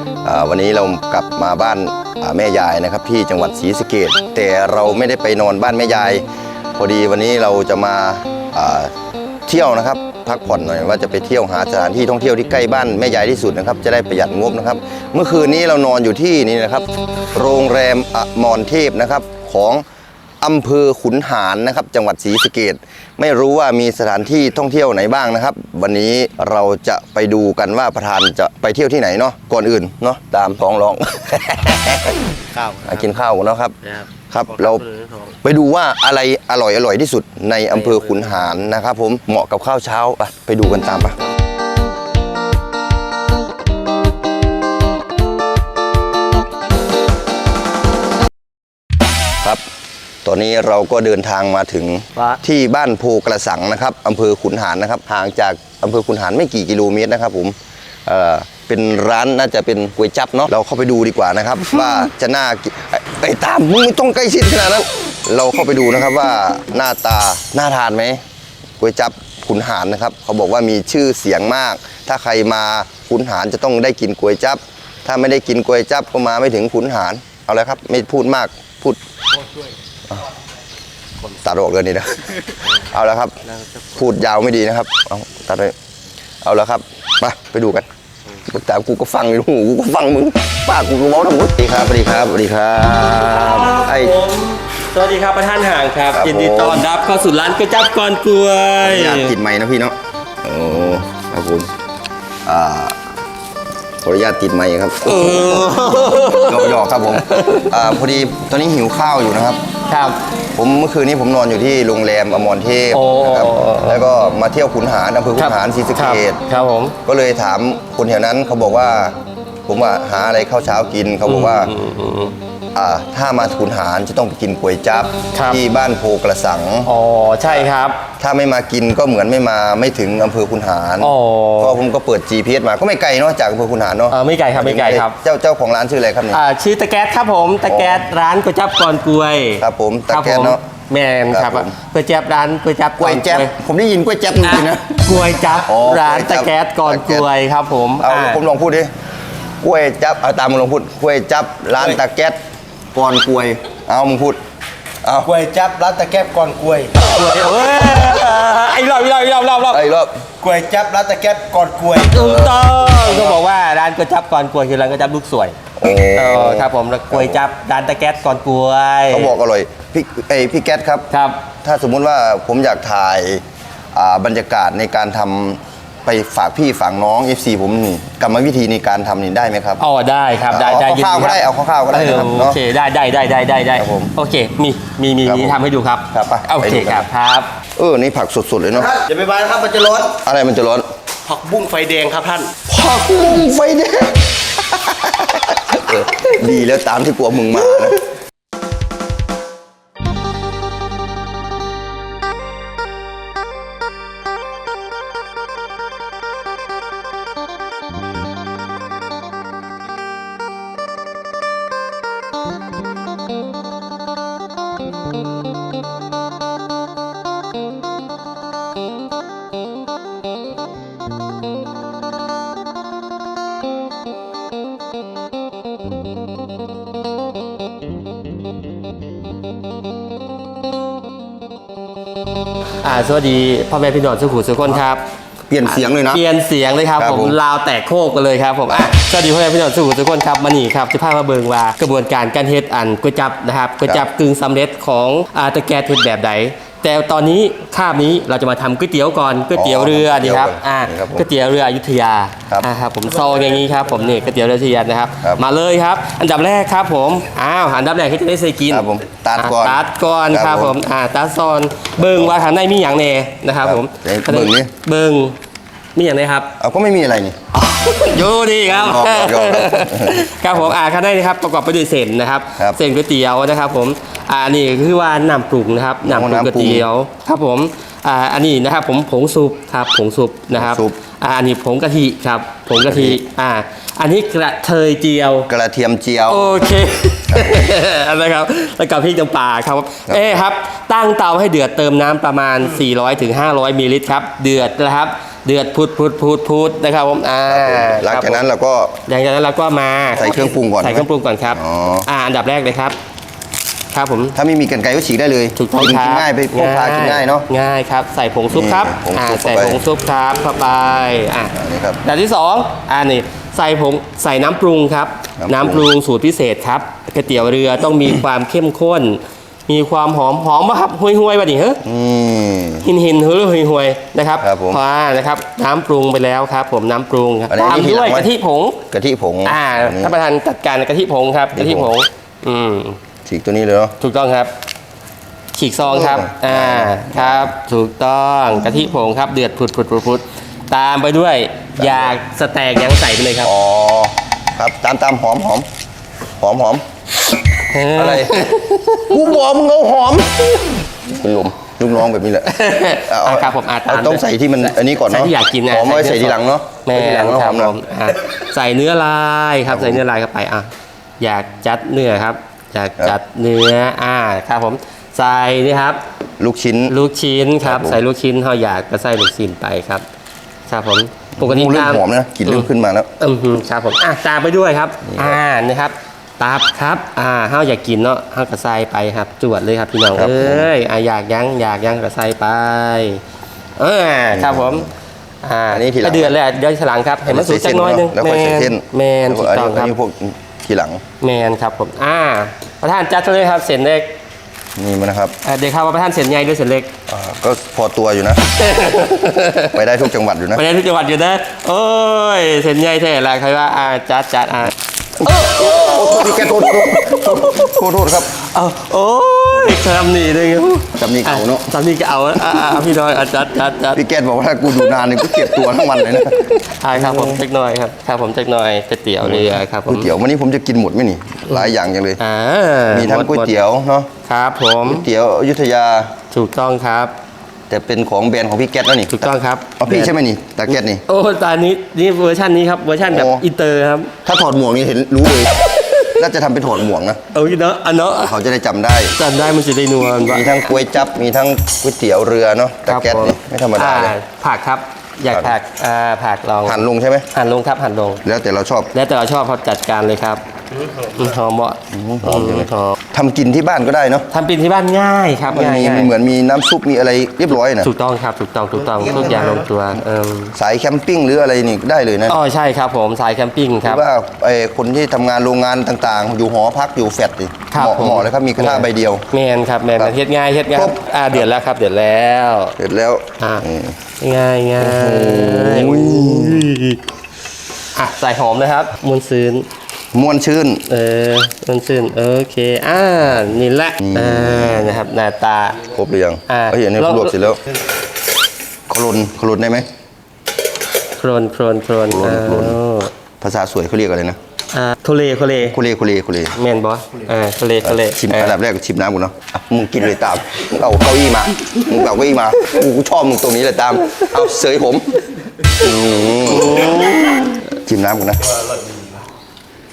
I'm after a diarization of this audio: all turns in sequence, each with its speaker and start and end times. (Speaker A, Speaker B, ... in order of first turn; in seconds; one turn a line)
Speaker A: 0.2-6.2
Speaker A: 6.8-8.9
Speaker A: 9.5-19.9
Speaker A: 20.4-34.9
Speaker B: 34.9-35.3
Speaker A: 35.4-41.2
Speaker A: 50.2-68.2
Speaker A: 68.8-79.0
Speaker A: 81.4-83.4
Speaker C: 83.5-83.9
Speaker A: 83.9-85.8
Speaker A: 86.4-87.9
Speaker A: 88.4-94.2
Speaker B: 93.2-99.3
Speaker A: 96.1-96.9
Speaker A: 98.8-101.7
Speaker A: 102.5-103.0
Speaker A: 104.0-109.6
Speaker B: 105.0-107.7
Speaker B: 109.9-110.2
Speaker A: 110.6-116.4
Speaker B: 112.9-114.0
Speaker B: 115.4-117.0
Speaker A: 117.0-121.8
Speaker B: 121.3-122.4
Speaker A: 122.8-126.9
Speaker B: 125.3-125.6
Speaker B: 126.8-128.1
Speaker A: 128.2-136.4
Speaker B: 131.0-131.8
Speaker B: 134.1-135.2
Speaker B: 136.3-143.6
Speaker A: 137.7-138.1
Speaker A: 139.6-140.6
Speaker A: 141.3-141.7
Speaker A: 143.0-147.3
Speaker B: 144.4-148.4
Speaker A: 148.0-148.9
Speaker A: 149.6-152.4
Speaker A: 152.9-154.4
Speaker A: 155.0-155.3
Speaker C: 155.2-158.2
Speaker B: 157.0-159.8
Speaker A: 159.7-160.2
Speaker C: 160.4-163.4
Speaker B: 162.1-165.6
Speaker A: 165.8-167.4
Speaker B: 166.1-169.3
Speaker A: 169.1-171.1
Speaker B: 171.1-171.4
Speaker A: 171.6-173.4
Speaker A: 173.9-179.8
Speaker B: 179.8-187.5
Speaker A: 180.5-182.6
Speaker A: 183.8-184.1
Speaker A: 185.2-185.6
Speaker A: 186.1-187.1
Speaker A: 187.8-188.9
Speaker C: 188.8-190.2
Speaker A: 190.1-190.9
Speaker C: 191.3-192.6
Speaker A: 192.7-198.0
Speaker B: 232.8-235.1
Speaker A: 235.5-236.2
Speaker B: 235.7-265.4
Speaker A: 237.0-237.4
Speaker A: 249.5-251.3
Speaker A: 258.7-260.8
Speaker A: 262.0-262.4
Speaker A: 263.6-264.7
Speaker B: 266.0-266.5
Speaker A: 266.6-267.4
Speaker B: 267.6-285.5
Speaker A: 268.7-270.7
Speaker A: 276.0-276.9
Speaker A: 280.6-281.0
Speaker A: 282.8-283.2
Speaker A: 285.5-286.6
Speaker B: 286.3-298.4
Speaker A: 287.3-287.6
Speaker A: 290.1-290.3
Speaker A: 297.5-299.0
Speaker B: 299.1-303.0
Speaker A: 300.2-302.1
Speaker B: 303.9-304.4
Speaker A: 304.4-307.5
Speaker B: 305.6-321.8
Speaker A: 308.5-309.8
Speaker A: 311.5-312.0
Speaker A: 315.4-315.9
Speaker A: 321.8-322.9
Speaker B: 322.8-328.9
Speaker A: 324.4-324.8
Speaker A: 327.5-328.3
Speaker A: 328.9-330.1
Speaker B: 329.4-333.0
Speaker A: 331.5-331.9
Speaker A: 333.2-333.9
Speaker B: 334.0-334.5
Speaker B: 335.5-343.5
Speaker A: 335.9-337.5
Speaker A: 341.8-342.1
Speaker A: 343.4-345.7
Speaker A: 346.4-346.8
Speaker B: 347.6-349.1
Speaker A: 347.9-357.8
Speaker B: 352.4-366.0
Speaker A: 359.7-360.0
Speaker A: 366.4-367.0
Speaker B: 366.9-370.1
Speaker A: 367.6-368.0
Speaker B: 370.7-383.2
Speaker A: 371.4-373.1
Speaker A: 375.1-375.4
Speaker A: 380.1-380.7
Speaker B: 383.8-384.9
Speaker A: 384.3-384.9
Speaker B: 385.4-389.9
Speaker A: 385.7-386.3
Speaker A: 387.2-391.0
Speaker B: 391.2-394.1
Speaker A: 394.8-395.4
Speaker B: 395.4-396.9
Speaker A: 397.1-398.5
Speaker B: 398.5-399.8
Speaker A: 399.7-400.6
Speaker B: 400.5-407.8
Speaker A: 405.2-408.3
Speaker B: 408.3-414.0
Speaker A: 410.9-411.7
Speaker A: 413.9-417.4
Speaker B: 415.1-420.1
Speaker A: 419.2-422.2
Speaker B: 421.5-423.5
Speaker A: 422.9-424.1
Speaker B: 424.2-425.1
Speaker A: 424.8-426.1
Speaker B: 426.3-427.1
Speaker A: 427.7-431.0
Speaker B: 429.1-430.1
Speaker B: 431.1-434.1
Speaker A: 433.1-433.4
Speaker A: 434.2-437.2
Speaker B: 435.8-436.2
Speaker B: 437.3-438.4
Speaker A: 438.2-439.1
Speaker B: 439.1-440.7
Speaker A: 440.2-444.1
Speaker B: 442.9-446.8
Speaker A: 445.3-445.6
Speaker A: 446.7-447.3
Speaker B: 447.3-448.2
Speaker A: 448.2-448.9
Speaker B: 448.9-453.0
Speaker A: 451.9-454.3
Speaker B: 454.3-456.1
Speaker A: 455.5-457.9
Speaker B: 457.8-460.6
Speaker A: 459.0-459.6
Speaker A: 460.6-462.4
Speaker B: 462.3-464.0
Speaker A: 463.8-469.2
Speaker B: 467.7-472.8
Speaker A: 470.7-471.4
Speaker A: 472.8-474.0
Speaker B: 473.4-477.0
Speaker A: 474.8-476.7
Speaker B: 477.9-479.7
Speaker A: 480.1-480.9
Speaker B: 480.9-485.8
Speaker A: 484.0-485.0
Speaker A: 485.9-487.6
Speaker B: 486.5-487.6
Speaker A: 488.9-489.9
Speaker B: 491.2-493.1
Speaker A: 492.1-492.8
Speaker A: 493.4-494.4
Speaker B: 494.7-495.8
Speaker A: 495.6-496.6
Speaker B: 496.5-498.6
Speaker A: 497.8-505.2
Speaker A: 505.8-508.5
Speaker B: 506.5-507.6